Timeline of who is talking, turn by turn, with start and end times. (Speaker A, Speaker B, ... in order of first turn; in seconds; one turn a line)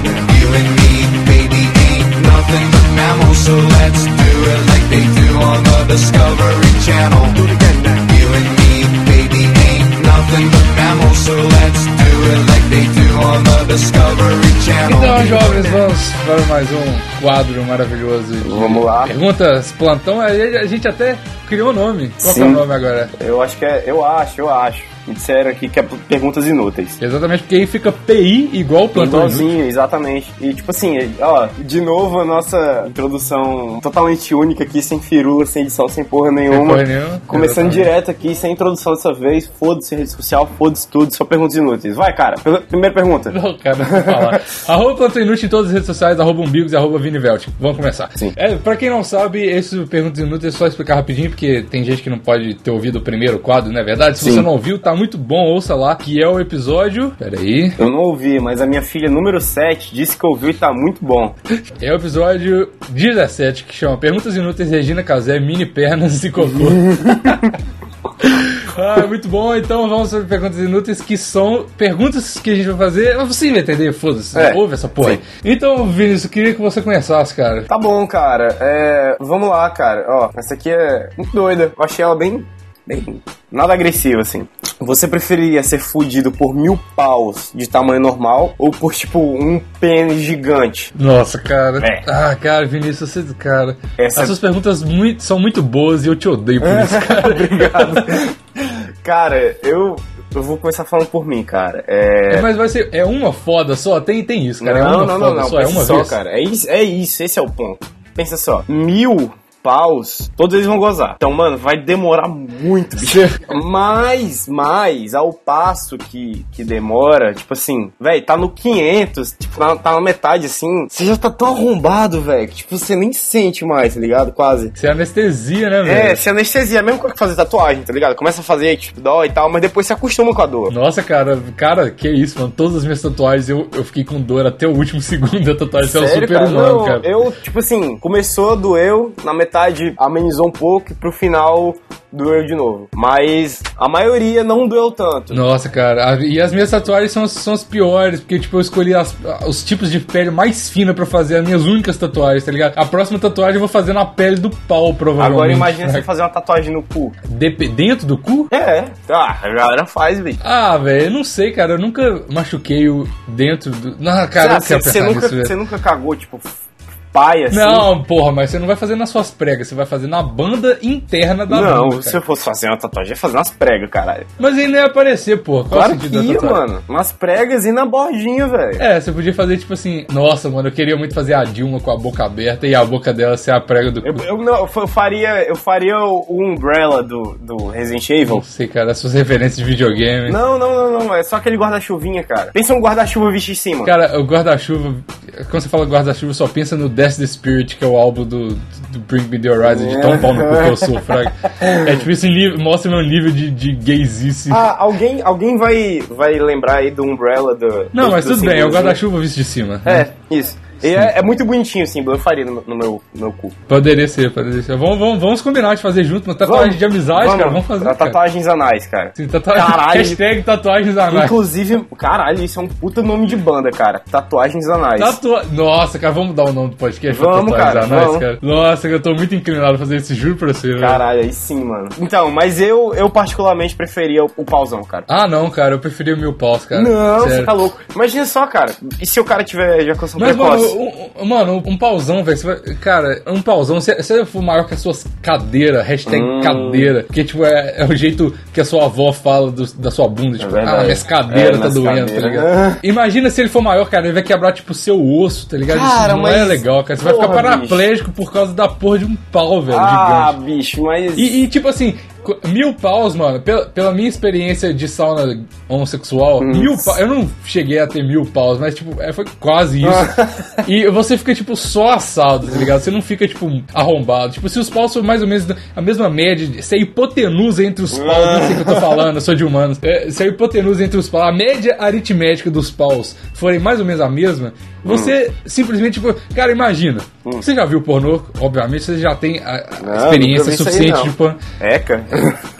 Speaker A: 0.1-7.4
Speaker A: 8.0-15.7
Speaker B: 14.8-23.1
Speaker C: 18.4-19.1
Speaker C: 22.2-22.7
Speaker C: 23.2-27.0
Speaker B: 27.0-29.5
Speaker C: 28.9-43.4
Speaker B: 36.5-37.9
Speaker B: 43.3-57.8
Speaker C: 54.2-54.5
Speaker C: 57.8-61.4
Speaker B: 61.8-67.5
Speaker C: 66.9-67.3
Speaker B: 68.2-77.7
Speaker C: 74.3-75.2
Speaker C: 77.7-90.9
Speaker B: 91.0-98.2
Speaker C: 91.8-92.0
Speaker C: 94.0-94.4
Speaker C: 96.6-102.5
Speaker B: 102.3-106.2
Speaker C: 104.6-124.8
Speaker B: 113.0-113.4
Speaker B: 124.8-126.2
Speaker C: 125.8-130.7
Speaker B: 130.7-137.1
Speaker C: 135.8-145.4
Speaker B: 145.3-156.1
Speaker C: 155.2-157.2
Speaker B: 157.3-158.5
Speaker C: 158.5-160.4
Speaker B: 160.4-165.5
Speaker C: 164.3-166.6
Speaker C: 167.1-167.9
Speaker B: 167.5-172.2
Speaker C: 171.5-174.3
Speaker B: 174.4-176.6
Speaker C: 175.7-178.8
Speaker B: 178.8-184.2
Speaker C: 184.0-188.4
Speaker B: 188.3-190.4
Speaker C: 190.3-193.9
Speaker B: 193.8-204.7
Speaker C: 199.7-201.8
Speaker C: 204.5-209.0
Speaker B: 207.9-210.1
Speaker C: 209.8-213.5
Speaker B: 210.8-211.1
Speaker B: 213.7-218.2
Speaker C: 216.4-220.2
Speaker B: 219.2-221.4
Speaker C: 221.1-225.2
Speaker B: 225.0-231.0
Speaker C: 227.1-228.3
Speaker C: 230.8-235.1
Speaker B: 235.1-237.6
Speaker C: 236.7-240.8
Speaker B: 240.2-260.4
Speaker C: 246.1-246.9
Speaker C: 250.4-252.8
Speaker C: 255.7-257.9
Speaker C: 259.7-261.4
Speaker B: 261.2-291.4
Speaker C: 266.4-267.0
Speaker C: 269.9-270.6
Speaker C: 277.9-279.0
Speaker C: 284.9-285.1
Speaker C: 289.8-292.4